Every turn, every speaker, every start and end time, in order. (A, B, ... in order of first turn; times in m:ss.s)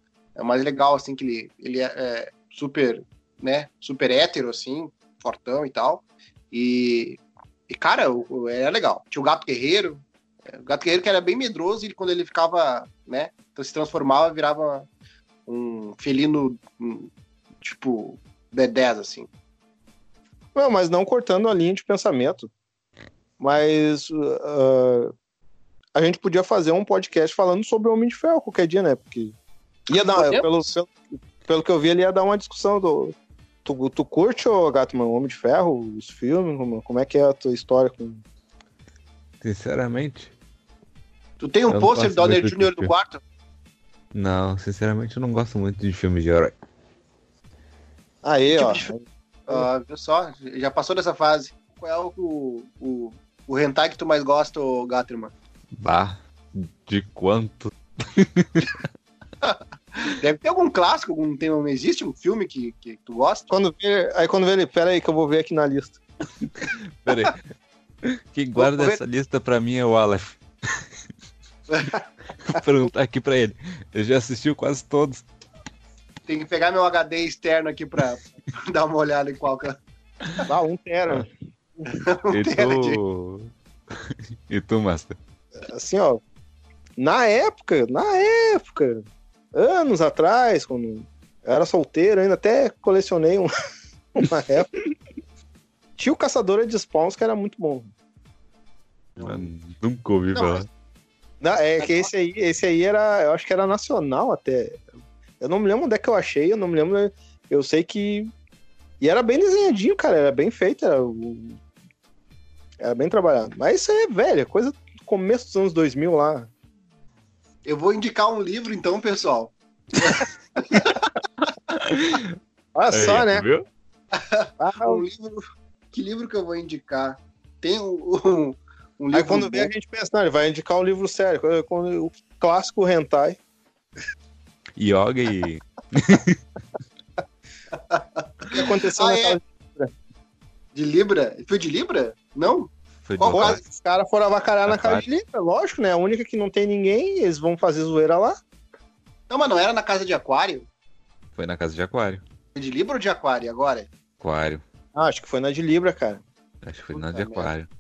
0:00.4-0:14.9 A
0:15.5-0:17.1 A
0:17.6-0:19.3 A
0:20.5-0:22.5 B
0:23.4-0:25.1 B
0:25.9-0:29.4 B
0:29.9-0:38.2 B
0:29.9-0:30.5 A
0:39.4-0:40.3 C
0:41.4-0:43.2 A
0:41.7-0:42.9 C
0:44.1-0:46.6 C
0:48.2-0:49.6 B
0:48.5-0:48.9 A
0:49.5-0:55.3 A
0:55.8-0:58.8 C
0:59.4-1:03.5 A
1:03.5-1:06.0 B
1:06.6-1:07.4 C
1:08.0-1:10.8 C
1:08.6-1:09.0 A
1:11.7-1:12.0 A
1:12.4-1:15.2 C
1:16.3-1:19.8 A
1:20.4-1:21.9 B
1:21.9-1:23.0 A
1:22.3-1:25.2 C
1:25.6-1:26.2 B
1:27.0-1:33.5 B
1:34.1-1:34.8 B
1:36.0-1:37.9 B
1:39.2-1:39.5 A
1:39.2-1:40.7 C
1:40.3-1:40.7 A
1:41.4-1:44.8 B
1:41.8-1:42.1 A
1:45.4-1:48.3 B
1:49.0-1:51.6 B
1:52.8-1:56.5 B
1:57.6-2:01.1 A
2:01.7-2:02.3 C
2:02.7-2:03.4 B
2:02.9-2:03.6 C
2:04.1-2:09.7 A
2:04.6-2:05.0 B
2:09.1-2:13.4 B
2:14.8-2:16.4 C
2:17.9-2:19.4 A
2:18.5-2:19.9 B
2:20.7-2:23.6 A
2:23.0-2:23.6 C
2:23.3-2:28.4 B
2:24.7-2:25.0 C
2:29.3-2:30.7 A
2:31.4-2:32.2 C
2:32.6-2:33.9 A
2:34.2-2:34.6 C
2:35.0-2:36.2 B
2:36.6-2:37.7 C
2:36.9-2:37.5 A